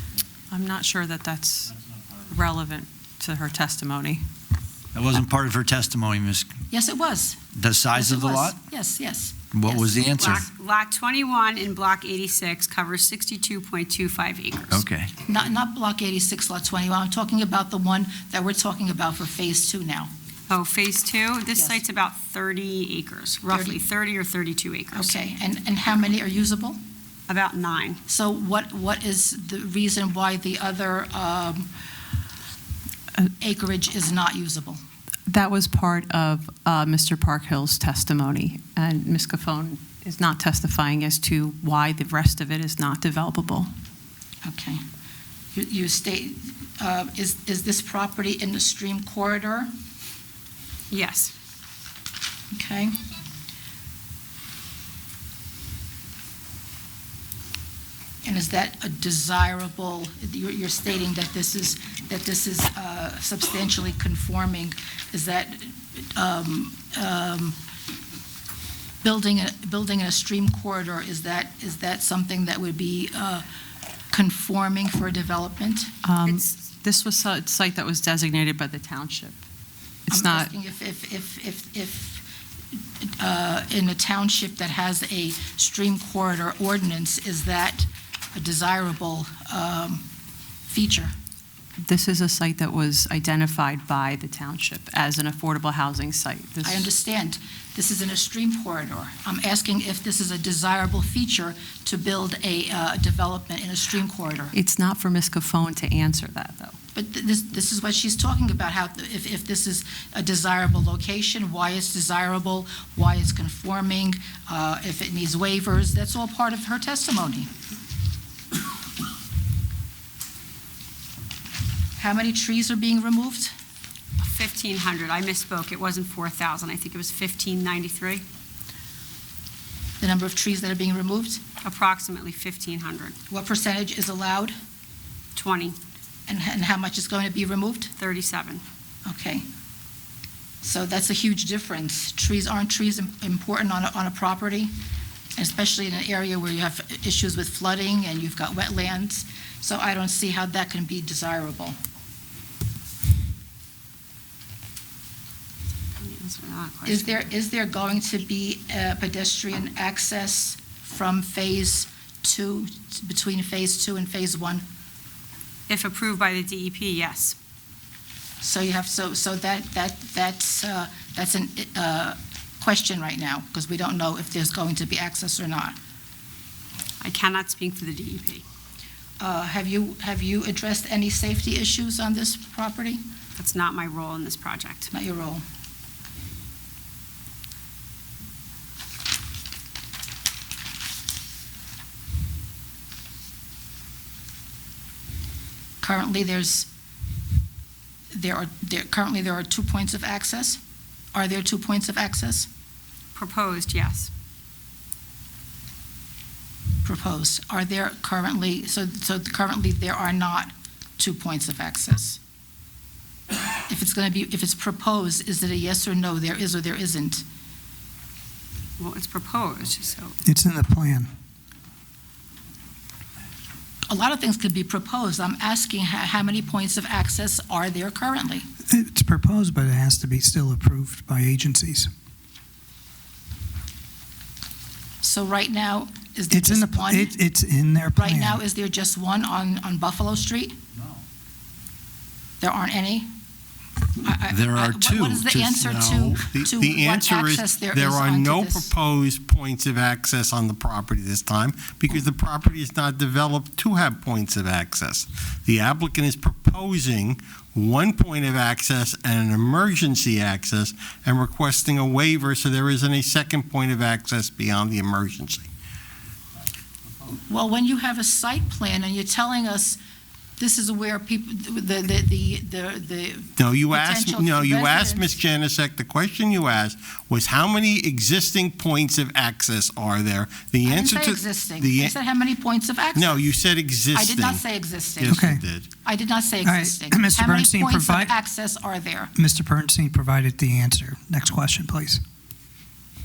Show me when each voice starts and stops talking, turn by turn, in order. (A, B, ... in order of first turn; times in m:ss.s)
0:00.5-0:01.7 A
0:02.3-0:04.2 A
0:04.9-0:06.5 B
0:06.7-0:07.4 C
0:07.5-0:08.6 B
0:07.9-0:10.1 C
0:09.5-0:10.4 B
0:10.1-0:14.8 D
0:14.7-0:15.1 B
0:15.3-0:20.1 C
0:20.5-0:25.1 D
0:21.6-0:21.8 C
0:23.5-0:23.8 C
0:24.9-0:26.8 C
0:27.3-0:28.0 D
0:28.1-0:31.7 C
0:33.4-0:34.8 C
0:35.3-0:43.7 A
0:44.4-0:44.8 C
0:45.5-0:49.7 C
0:50.9-0:51.3 D
0:52.5-0:52.9 C
0:58.2-1:07.6 C
1:09.0-1:13.4 C
1:14.1-1:15.9 C
1:16.0-1:19.4 A
1:20.1-1:20.5 A
1:20.1-1:22.2 C
1:23.0-1:30.1 C
1:30.7-1:31.1 C
1:31.9-1:36.9 A
1:36.6-1:44.5 C
1:44.5-1:46.8 A
1:47.0-1:57.5 C
2:02.0-2:03.5 C
2:04.2-2:08.2 D
2:10.0-2:11.4 C
2:11.6-2:13.2 D
2:13.3-2:14.6 C
2:15.4-2:15.8 D
2:16.3-2:17.9 C
2:18.0-2:18.6 D
2:19.1-2:19.5 C
2:20.6-2:24.7 C
2:25.4-2:31.8 C
2:36.0-2:37.3 D
2:36.8-2:44.6 C
2:45.7-2:47.4 D
2:48.4-2:55.8 C
2:57.0-2:58.4 D
2:59.2-3:03.0 C
3:03.4-3:04.9 D
3:04.9-3:05.4 C
3:15.8-3:16.7 C
3:18.1-3:20.6 C
3:21.1-3:22.5 C
3:23.2-3:24.1 D
3:26.8-3:32.2 C
3:33.7-3:37.2 C
3:38.8-3:40.2 D
3:40.2-3:41.1 E
3:43.9-3:48.5 C
3:48.7-3:51.9 E
3:55.0-3:57.2 C
3:56.3-3:58.4 E
3:57.9-4:00.6 C
4:02.4-4:03.1 C
4:04.0-4:08.7 C
4:04.3-4:06.1 B
4:06.0-4:25.4 F
4:27.3-4:29.8 C
4:30.4-4:35.2 C
4:33.4-4:41.9 F
4:40.6-4:43.3 C
4:42.9-4:44.4 F
4:43.9-4:45.3 C
4:45.0-4:45.7 F
4:45.1-4:45.4 E
4:45.8-4:49.1 C
4:46.4-4:48.1 E
4:49.1-4:52.0 E